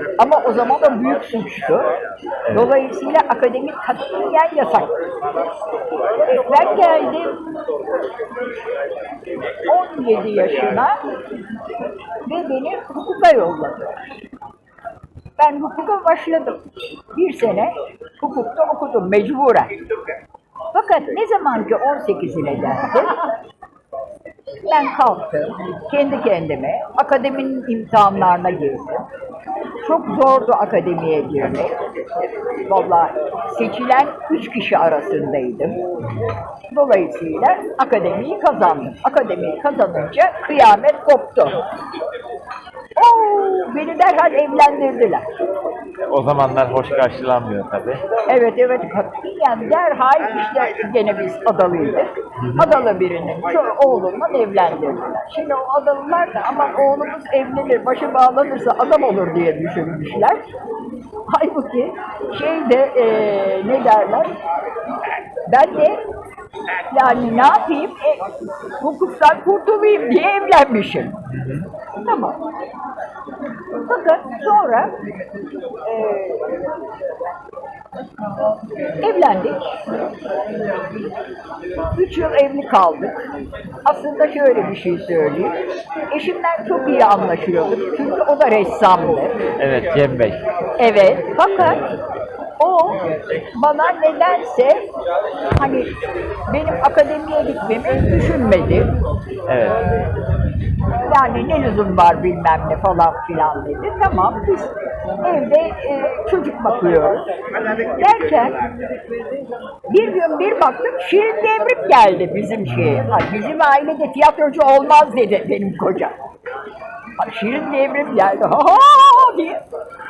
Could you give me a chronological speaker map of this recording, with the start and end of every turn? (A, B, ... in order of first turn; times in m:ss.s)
0:00.2-0:01.9 A
0:02.5-0:02.7 B
0:02.5-0:05.0 A
0:06.2-0:07.4 A
0:09.7-0:11.0 A
0:12.3-0:14.0 A
0:15.4-0:16.6 A
0:17.2-0:19.8 A
0:20.7-0:23.3 A
0:24.6-0:29.1 A
0:29.8-0:32.0 A
0:32.6-0:35.8 A
0:36.7-0:41.6 A
0:43.0-0:45.2 A
0:46.1-0:48.0 B
0:48.3-1:00.4 A
1:01.3-1:04.3 A
1:05.5-1:06.0 A
1:06.9-1:08.3 A
1:08.8-1:11.2 A
1:12.0-1:12.4 A
1:13.8-1:14.9 A
1:15.8-1:16.6 A
1:19.0-1:19.8 A
1:21.9-1:23.2 A
1:23.8-1:25.6 A
1:26.1-1:29.4 A
1:29.6-1:30.4 B
1:30.8-1:31.8 A
1:32.6-1:34.8 A
1:35.6-1:35.9 A
1:36.5-1:38.9 A
1:39.5-1:39.9 B
1:41.0-1:47.3 A
1:47.8-1:48.7 A
1:49.9-1:56.2 A
1:57.2-1:59.6 A